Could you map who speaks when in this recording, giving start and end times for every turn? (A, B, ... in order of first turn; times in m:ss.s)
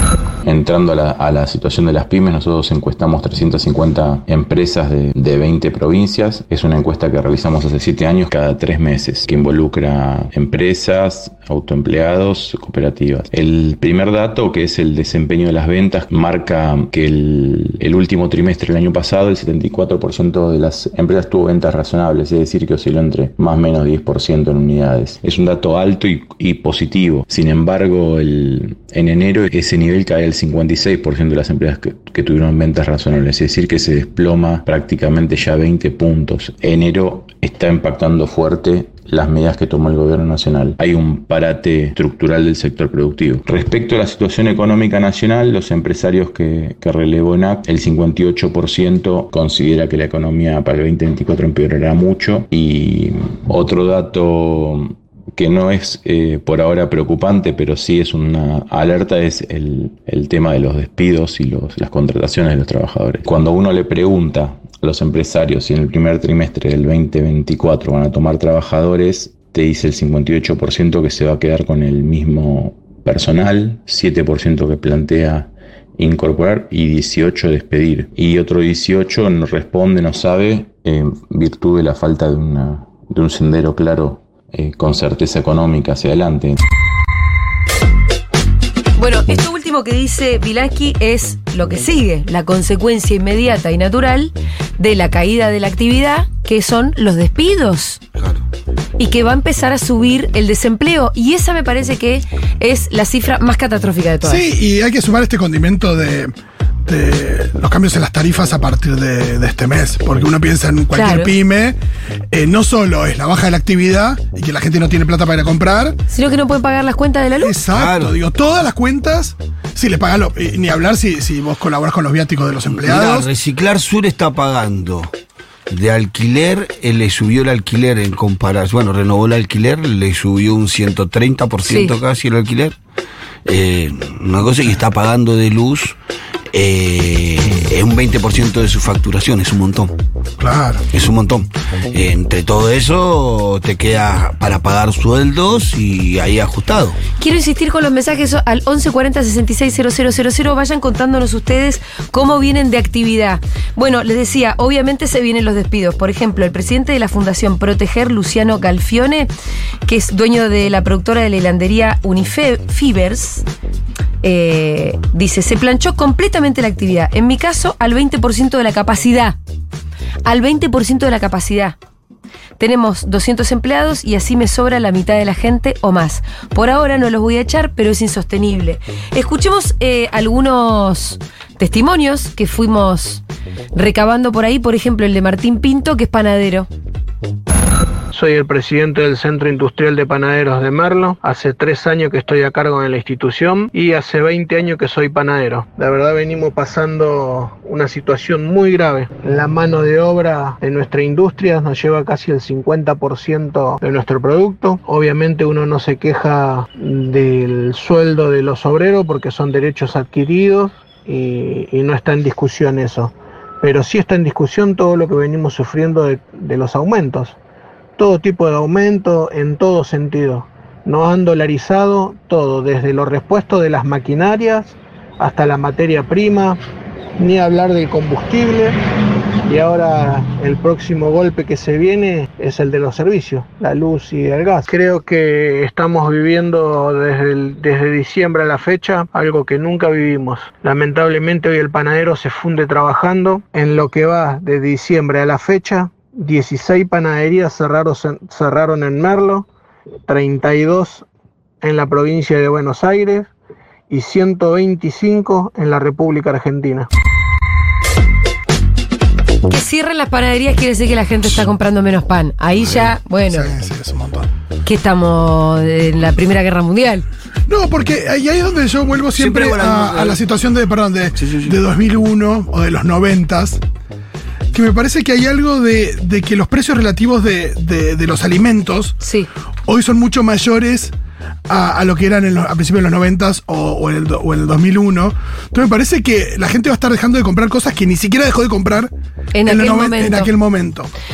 0:00.4-1:26.6 A
1:29.0-1:38.0 B
1:38.2-1:38.4 C
1:39.0-1:44.4 B
1:44.2-1:46.3 D
1:46.9-1:51.8 D
1:50.9-1:51.3 B
1:52.3-1:56.0 D
1:56.1-1:57.6 B
1:57.4-2:03.3 D
1:57.7-1:58.1 C
2:02.8-2:05.1 C
2:05.7-2:12.8 C
2:11.7-2:11.9 B
2:13.4-2:16.0 C
2:16.5-2:19.9 C
2:20.4-2:20.8 D
2:20.9-2:27.0 C
2:27.2-2:39.3 B
2:39.9-2:43.4 B
2:44.2-2:49.4 B
2:50.2-2:51.8 B
2:52.6-3:03.2 B
3:03.8-3:06.7 B
3:08.1-3:37.4 E
3:38.0-3:46.6 E
3:47.2-3:48.8 E
3:49.5-4:09.5 E
4:10.1-4:11.0 E
4:11.6-4:13.3 E
4:13.9-4:16.9 E
4:19.5-4:23.5 B
4:23.3-4:24.3 D
4:24.6-4:27.0 B
4:27.5-4:33.6 D
4:29.2-4:30.2 C
4:31.2-4:31.6 C
4:34.5-4:39.0 D
4:39.0-4:39.3 B
4:39.7-4:40.9 D
4:41.5-4:48.9 D
4:49.4-4:50.3 B
4:49.4-4:50.9 D